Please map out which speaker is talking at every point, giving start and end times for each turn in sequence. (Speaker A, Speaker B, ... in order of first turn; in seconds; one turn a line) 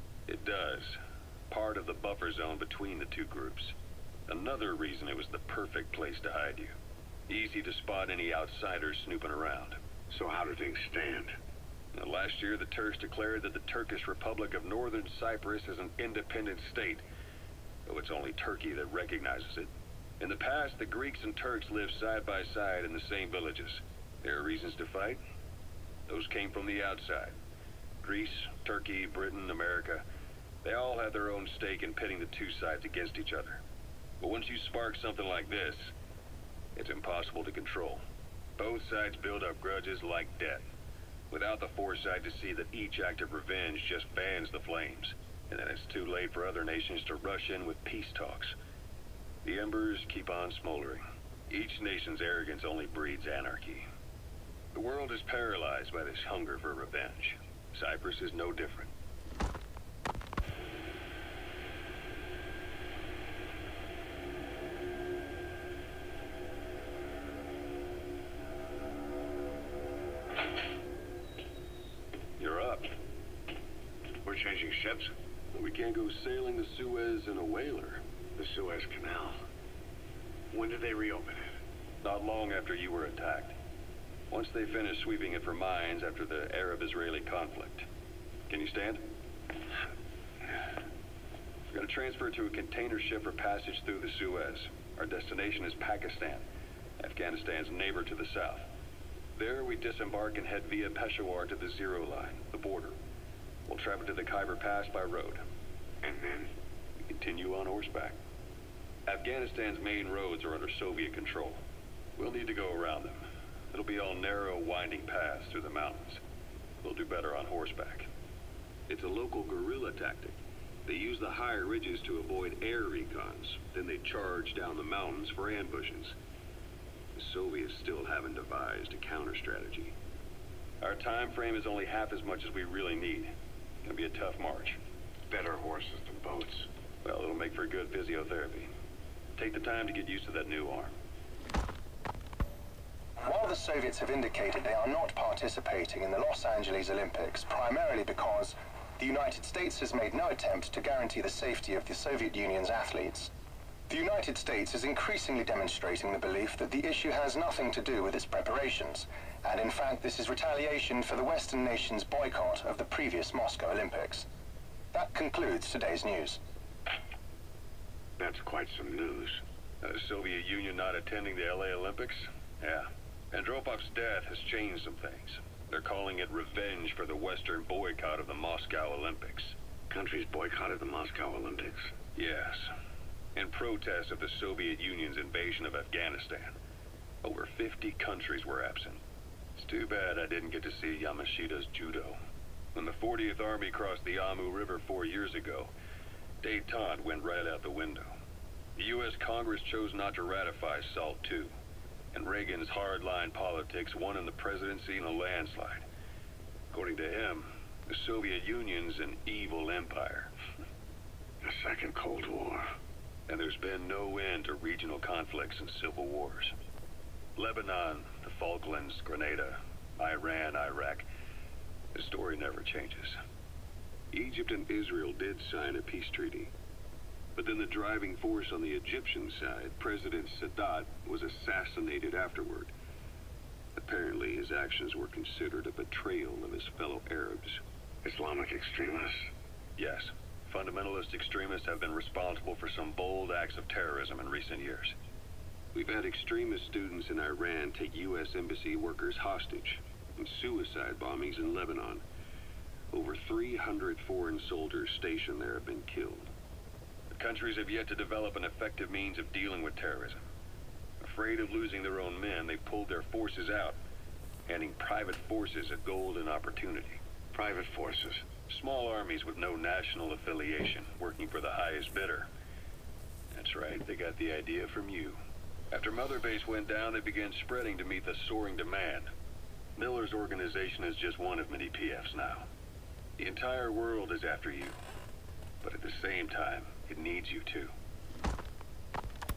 Speaker A: 0.3-1.0
Speaker A: 1.5-3.7
Speaker A: 4.3-6.7
Speaker A: 7.3-9.8
Speaker B: 10.1-11.3
Speaker A: 11.9-17.0
Speaker A: 17.9-25.2
Speaker A: 26.1-27.3
Speaker A: 28.0-30.0
Speaker A: 30.6-33.6
Speaker A: 34.2-35.9
Speaker A: 36.8-38.0
Speaker A: 38.6-40.6
Speaker A: 41.3-48.5
Speaker A: 49.4-53.8
Speaker A: 54.7-58.9
Speaker A: 72.4-73.0
Speaker B: 74.2-75.1
Speaker A: 75.5-78.0
Speaker B: 78.3-79.4
Speaker B: 80.5-81.5
Speaker A: 82.0-83.5
Speaker A: 84.3-87.8
Speaker A: 88.5-89.0
Speaker A: 91.7-96.4
Speaker A: 97.0-98.7
Speaker A: 99.3-102.9
Speaker A: 103.7-105.4
Speaker B: 106.0-106.5
Speaker A: 107.1-108.2
Speaker A: 109.1-111.6
Speaker A: 112.2-116.2
Speaker A: 116.8-118.1
Speaker A: 118.9-126.1
Speaker A: 127.1-129.9
Speaker A: 130.8-133.3
Speaker A: 133.8-134.8
Speaker B: 135.3-136.7
Speaker A: 137.0-138.7
Speaker A: 139.3-140.9
Speaker C: 143.2-153.3
Speaker C: 153.9-164.2
Speaker C: 164.9-166.4
Speaker B: 168.2-169.4
Speaker A: 169.8-179.6
Speaker B: 179.9-181.9
Speaker A: 182.2-182.7
Speaker A: 183.3-186.5
Speaker A: 187.2-189.0
Speaker A: 189.5-192.2
Speaker A: 192.7-195.7
Speaker A: 196.4-198.1
Speaker A: 198.8-201.5
Speaker A: 202.1-205.8
Speaker A: 206.7-210.3
Speaker B: 211.4-212.7
Speaker A: 213.3-216.5
Speaker A: 217.3-221.1
Speaker A: 221.9-223.2
Speaker A: 224.1-226.5
Speaker A: 227.3-232.7
Speaker A: 233.7-237.6
Speaker B: 238.0-239.3
Speaker A: 239.8-244.9
Speaker A: 245.7-252.0
Speaker A: 252.9-256.3
Speaker A: 257.1-260.2
Speaker A: 261.0-263.8
Speaker A: 264.5-267.0
Speaker B: 267.3-268.3
Speaker A: 268.5-272.3
Speaker A: 273.3-275.2
Speaker A: 275.7-279.1
Speaker A: 279.8-282.5
Speaker A: 283.2-284.8
Speaker A: 285.6-287.7